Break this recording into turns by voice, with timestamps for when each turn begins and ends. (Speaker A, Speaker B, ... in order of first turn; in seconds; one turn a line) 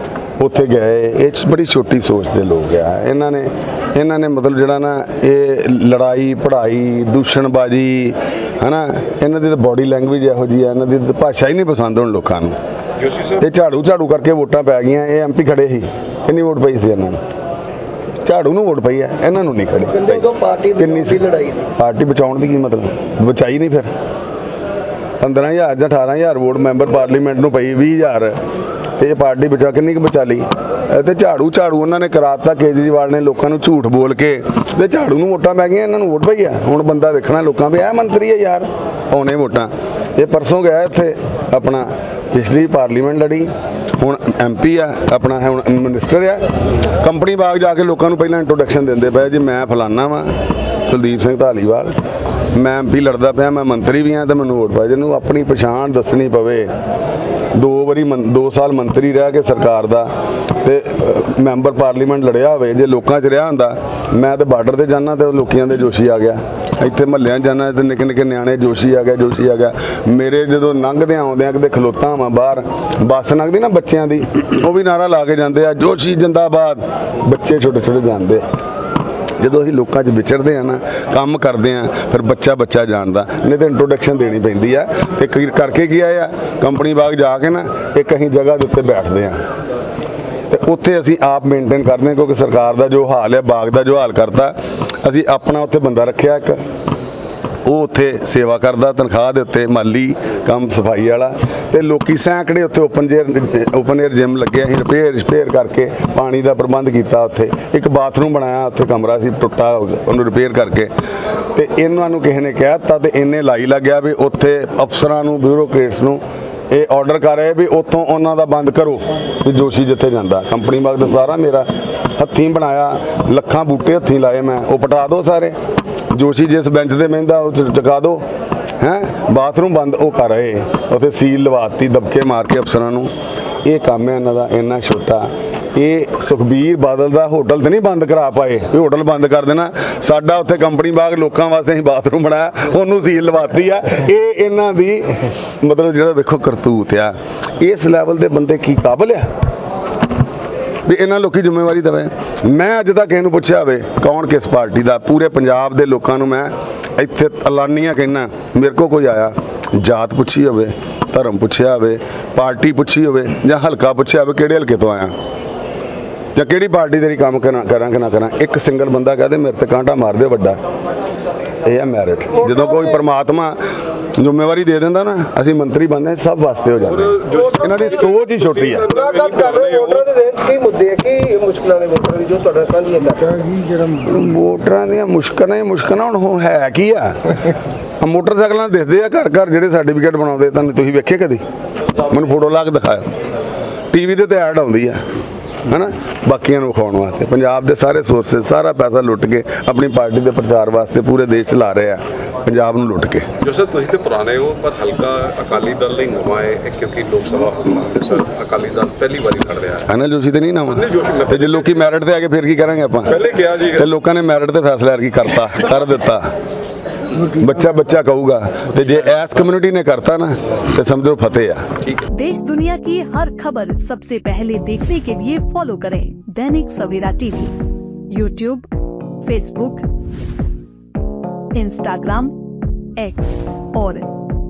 Speaker A: 0.4-12.6
Speaker A: 13.4-17.2
Speaker A: 18.2-21.2
Speaker B: 19.9-21.7
Speaker A: 21.8-23.9
Speaker A: 25.2-28.4
Speaker A: 29.0-52.0
Speaker A: 52.5-56.7
Speaker A: 57.5-78.5
Speaker A: 79.4-89.4
Speaker A: 90.5-96.6
Speaker A: 97.7-110.9
Speaker A: 111.5-125.6
Speaker A: 126.1-128.2
Speaker A: 128.8-133.1
Speaker A: 133.6-149.3
Speaker A: 150.8-165.2
Speaker A: 166.3-170.6
Speaker A: 171.6-173.6
Speaker B: 172.5-172.8
Speaker A: 174.2-178.9
Speaker C: 177.2-177.6
Speaker C: 178.8-180.1
Speaker B: 178.8-183.5
Speaker A: 184.0-187.4
Speaker A: 188.0-191.4
Speaker A: 192.0-193.1
Speaker A: 193.9-195.0
Speaker A: 195.7-203.3
Speaker C: 203.4-209.9
Speaker A: 209.9-216.3
Speaker C: 210.9-211.2
Speaker C: 213.3-213.6
Speaker A: 217.2-221.7
Speaker D: 222.1-227.5
Speaker D: 228.1-228.7
Speaker D: 229.2-229.8
Speaker D: 231.6-232.3
Speaker D: 233.0-234.1